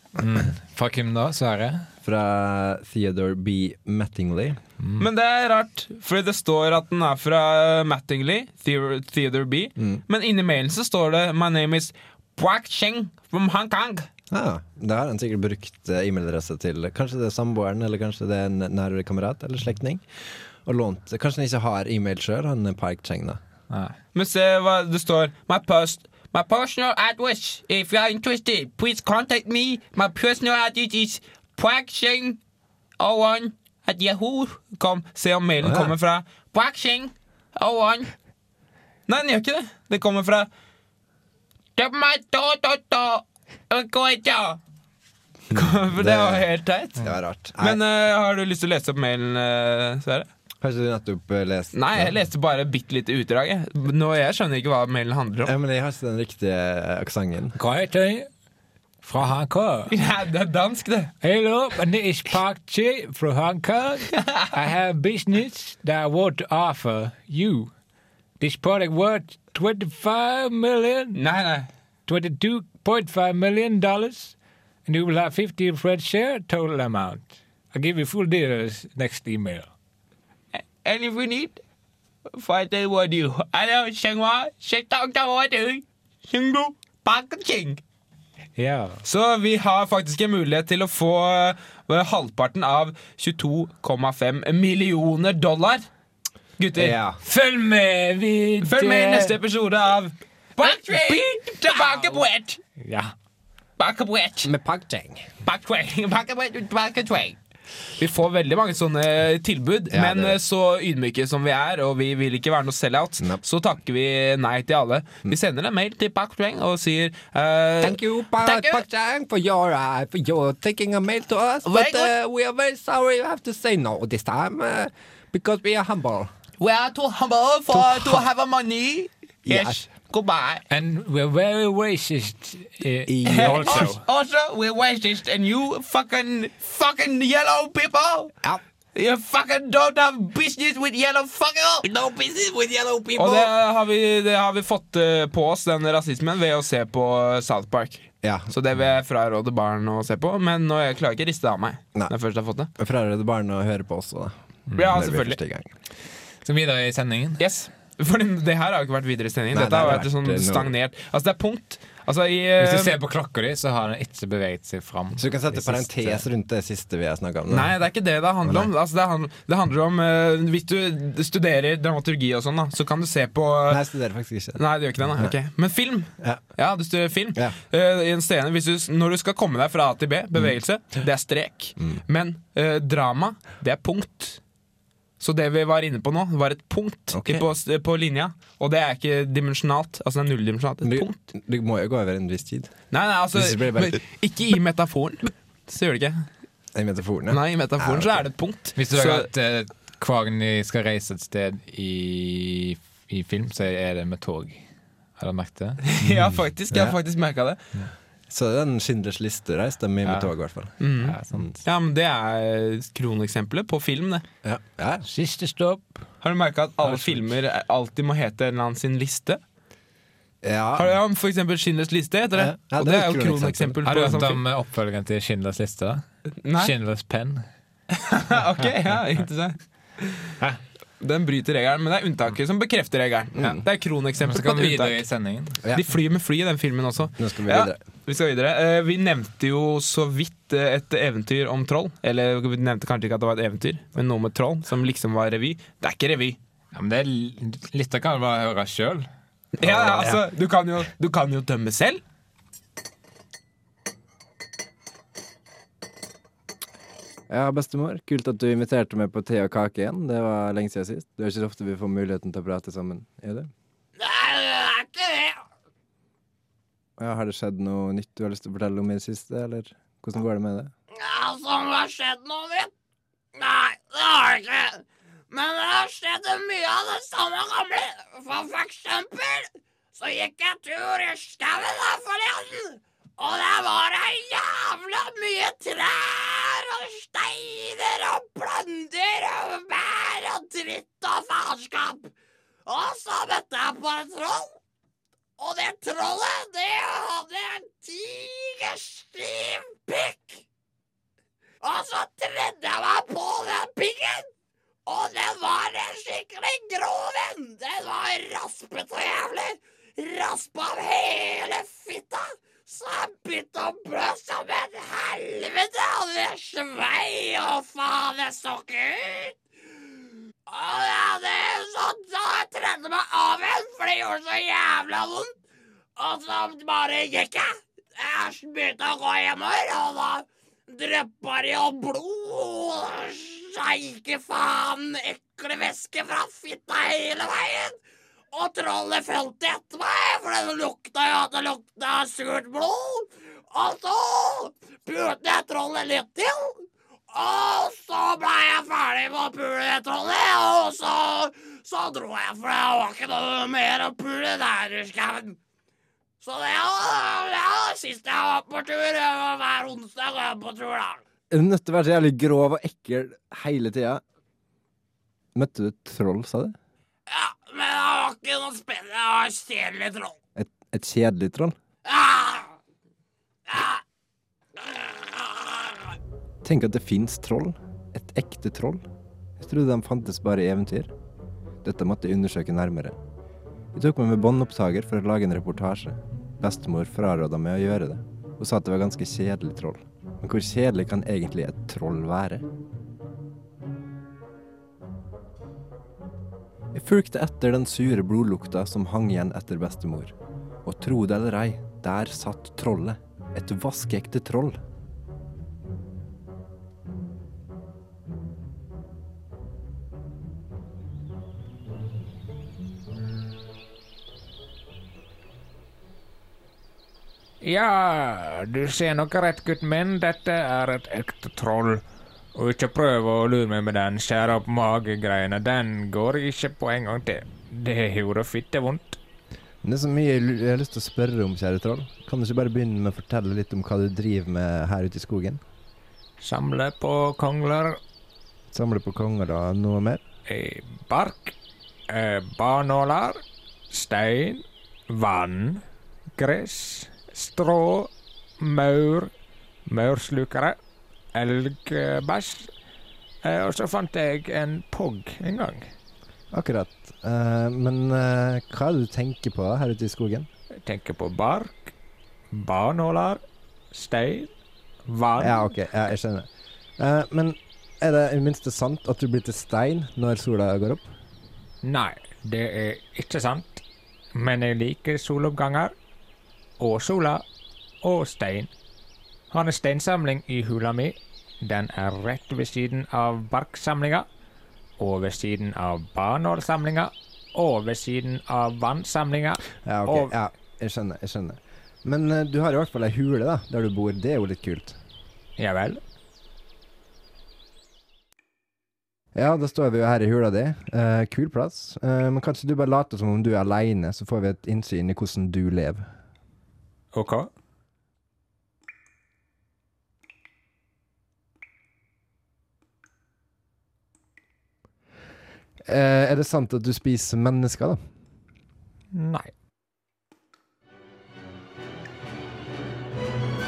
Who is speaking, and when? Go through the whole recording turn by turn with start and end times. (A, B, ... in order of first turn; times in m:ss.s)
0:00.2-0:01.9 A
0:02.0-0:04.6 B
0:04.8-0:05.0 A
0:05.0-0:14.1 C
0:14.3-0:23.4 B
0:23.7-0:24.0 A
0:24.1-0:32.4 C
0:33.0-0:38.1 C
0:35.6-0:35.9 B
0:39.1-0:40.5 C
0:41.8-0:44.6 C
0:45.5-0:46.5 B
0:45.5-0:47.0 C
0:47.0-0:47.8 B
0:47.6-0:50.3 C
0:50.6-0:52.1 B
0:51.7-0:55.5 C
0:55.4-0:57.6 B
0:57.6-0:58.3 D
0:59.0-0:59.9 A
0:59.3-0:59.8 D
0:59.9-1:01.1 C
1:01.2-1:03.5 D
1:02.0-1:05.2 A
1:04.6-1:07.5 D
1:07.0-1:07.7 A
1:08.4-1:11.0 D
1:08.6-1:11.1 A
1:11.2-1:11.7 C
1:12.1-1:14.3 D
1:12.1-1:14.1 A
1:14.9-1:17.2 A
1:15.0-1:17.1 D
1:17.7-1:19.4 D
1:18.3-1:19.6 A
1:20.8-1:21.6 C
1:22.3-1:27.8 C
1:28.6-1:29.0 A
1:29.0-1:35.9 C
1:36.6-1:37.0 C
1:36.8-1:37.2 B
1:37.2-1:39.3 A
1:38.6-1:42.6 C
1:42.8-1:43.1 A
1:43.8-1:44.5 C
1:44.4-1:45.3 B
1:45.4-1:47.4 C
1:48.0-1:58.8 C
1:49.9-1:50.4 B
1:57.8-2:06.3 B
2:01.6-2:02.1 C
2:06.6-2:10.6 C
2:07.7-2:08.3 B
2:09.4-2:09.8 B
2:10.7-2:14.0 A
2:13.1-2:13.9 B
2:13.3-2:18.3 C
2:19.0-2:32.7 C
2:28.2-2:28.5 B
2:32.8-2:35.7 B
2:34.8-2:35.4 C
2:36.4-2:37.4 A
2:37.4-2:43.0 C
2:39.5-2:40.7 B
2:42.6-2:46.2 A
2:45.2-2:47.7 B
2:47.5-2:53.8 C
2:48.4-2:48.7 B
2:53.7-2:54.6 B
2:54.6-3:04.4 C
2:56.2-2:56.4 B
3:05.2-3:11.2 C
3:07.1-3:07.4 B
3:10.8-3:14.0 B
3:12.9-3:16.3 C
3:16.8-3:18.3 B
3:17.3-3:19.3 C
3:18.8-3:24.6 A
3:25.2-3:25.8 A
3:25.8-3:27.6 C
3:26.3-3:27.0 B
3:28.3-3:31.6 B
3:30.0-3:30.3 A
3:30.8-3:34.2 C
3:30.8-3:31.5 A
3:34.4-3:35.0 B
3:35.2-3:35.8 D
3:35.5-3:35.8 A
3:36.2-3:39.4 C
3:36.8-3:37.3 A
3:40.4-3:41.0 B
3:40.8-3:44.4 C
3:42.3-3:43.8 B
3:43.8-3:46.0 A
3:46.4-3:46.7 C
3:46.6-3:47.4 A
3:47.9-3:50.3 C
3:51.0-3:55.0 C
3:53.4-3:53.6 B
3:54.2-3:55.6 A
3:55.6-3:55.9 B
3:55.7-4:06.4 C
3:57.2-3:57.8 B
4:06.7-4:09.1 A
4:09.6-4:12.0 C
4:09.7-4:10.2 B
4:17.3-4:23.5 B
4:24.0-4:25.4 E
4:27.0-4:30.7 B
4:30.9-4:32.7 E
4:33.4-4:52.1 E
4:52.7-4:54.6 E
4:55.4-5:00.4 E
5:01.6-5:04.3 E
5:04.9-5:19.4 E
5:20.5-5:25.3 E
5:26.0-5:37.8 E
5:38.3-5:55.4 E
5:56.2-6:01.0 E
6:01.3-6:04.0 B
6:05.4-6:06.6 B
6:07.1-6:10.2 E
6:10.4-6:11.6 B
6:11.8-6:12.5 E
6:13.5-6:13.8 E
6:14.6-6:15.9 E
6:16.4-6:18.8 B
6:19.4-6:20.9 B
6:21.6-6:23.0 B
6:23.7-6:32.4 B
6:36.7-6:40.1 B
6:40.6-6:44.6 B
6:57.4-7:01.8 D
7:02.4-7:09.0 D
7:09.6-7:15.4 B
7:16.2-7:17.8 D
7:18.5-7:20.0 B
7:20.3-7:21.3 D
7:21.9-7:25.6 D
7:26.2-7:29.1 D
7:29.7-7:30.6 D
7:31.2-7:32.5 D
7:33.2-7:35.7 D
7:36.3-7:40.3 B
7:40.6-7:41.7 D
7:42.3-7:44.3 D
7:44.9-7:45.3 D
7:45.2-7:51.0 B
7:51.6-7:53.6 D
7:54.2-7:55.7 D
7:56.6-7:57.2 D
7:57.8-7:58.5 D
7:59.3-8:04.1 D
8:04.8-8:10.1 D
8:09.6-8:14.8 B
8:15.4-8:15.8 D
8:19.2-8:25.9 B
8:26.9-8:27.3 A
8:35.7-8:37.9 B
8:38.9-8:39.3 D